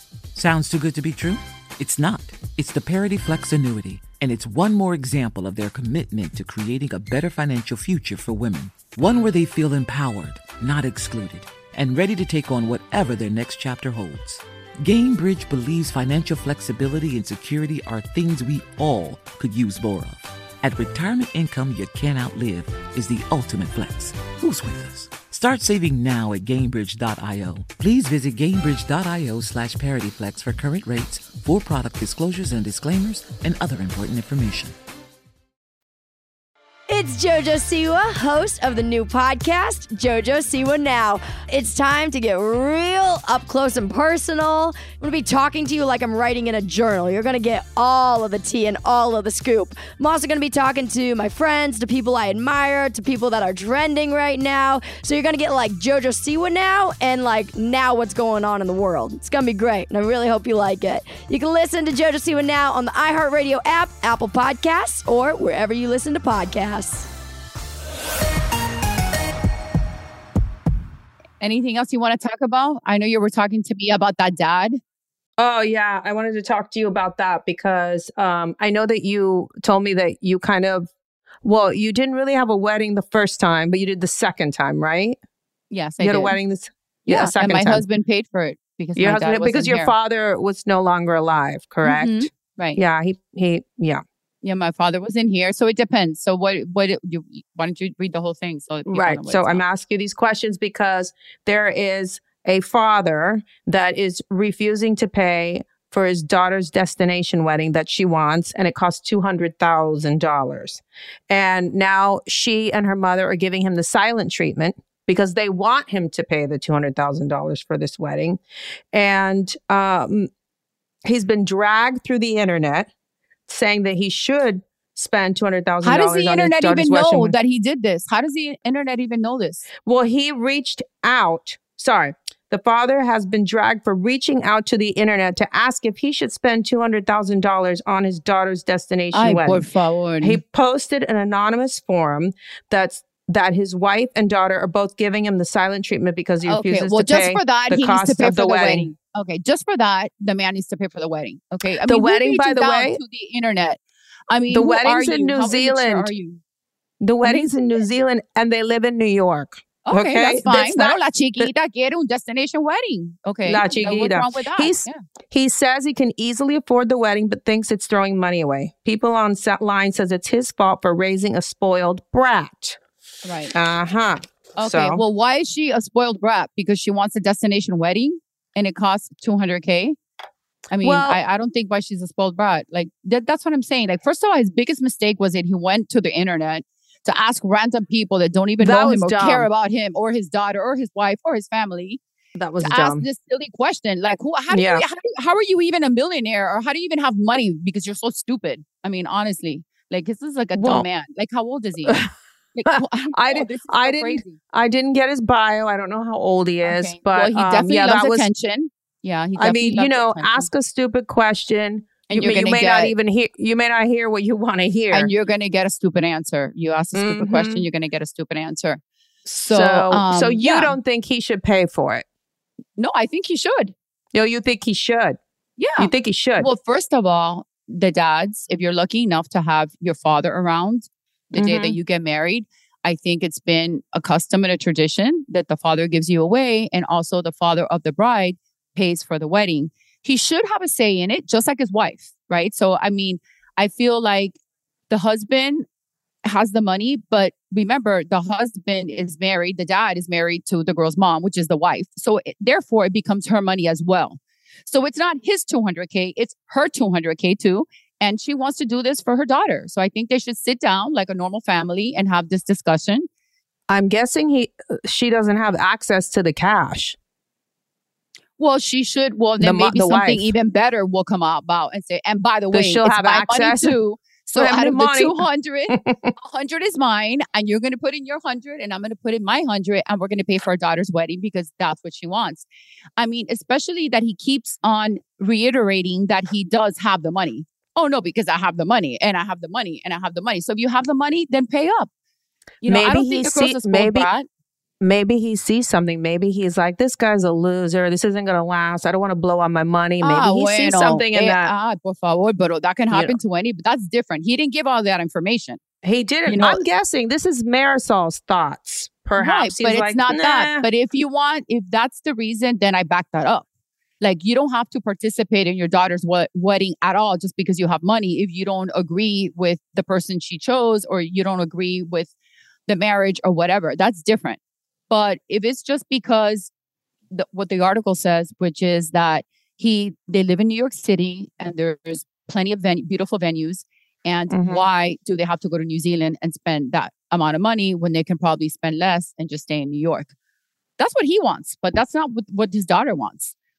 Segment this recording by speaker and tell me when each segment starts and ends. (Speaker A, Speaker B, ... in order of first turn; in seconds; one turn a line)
Speaker A: 0.3-34.8
Speaker B: 36.9-67.1
Speaker C: 71.4-74.8
Speaker D: 75.4-80.9
Speaker D: 81.4-85.2
Speaker C: 85.7-86.4
Speaker D: 86.0-87.8
Speaker C: 87.1-89.9
Speaker D: 89.0-94.0
Speaker C: 91.8-92.8
Speaker C: 94.4-99.6
Speaker D: 98.9-118.4
Speaker D: 118.9-120.3
Speaker D: 121.0-122.9
Speaker D: 123.5-127.3
Speaker C: 125.8-129.7
Speaker D: 129.8-139.7
Speaker C: 139.1-140.4
Speaker D: 140.2-148.9
Speaker C: 146.4-153.8
Speaker D: 151.8-153.0
Speaker C: 154.3-156.4
Speaker D: 154.5-156.1
Speaker D: 157.0-161.4
Speaker C: 157.2-157.8
Speaker C: 159.9-165.0
Speaker D: 163.4-172.8
Speaker C: 173.2-173.5
Speaker D: 173.5-175.0
Speaker C: 174.6-180.0
Speaker C: 180.7-192.0
Speaker D: 180.8-181.2
Speaker D: 188.6-189.5
Speaker D: 192.4-193.0
Speaker C: 192.6-202.0
Speaker D: 194.5-194.8
Speaker D: 200.6-200.9
Speaker D: 201.9-202.1
Speaker C: 202.6-204.4
Speaker D: 202.7-208.3
Speaker C: 206.6-210.5
Speaker D: 209.4-215.1
Speaker C: 212.1-212.9
Speaker C: 214.9-218.8
Speaker D: 216.9-217.7
Speaker D: 219.3-222.1
Speaker C: 219.3-220.8
Speaker C: 222.8-223.8
Speaker D: 224.1-225.2
Speaker C: 225.6-244.4
Speaker D: 225.8-226.5
Speaker D: 231.3-231.8
Speaker C: 244.9-245.7
Speaker C: 246.2-263.1
Speaker D: 263.7-267.0
Speaker C: 268.4-282.5
Speaker D: 269.4-270.3
Speaker D: 272.5-273.8
Speaker D: 274.4-275.2
Speaker D: 275.7-276.1
Speaker C: 283.0-291.9
Speaker C: 292.6-294.3
Speaker D: 292.7-294.1
Speaker D: 294.8-301.5
Speaker C: 300.0-305.6
Speaker D: 302.9-303.2
Speaker D: 305.8-310.7
Speaker C: 306.3-306.6
Speaker C: 309.2-313.4
Speaker C: 314.0-322.1
Speaker C: 322.7-324.4
Speaker C: 324.9-326.5
Speaker C: 327.1-340.1
Speaker D: 334.3-334.6
Speaker C: 340.8-343.3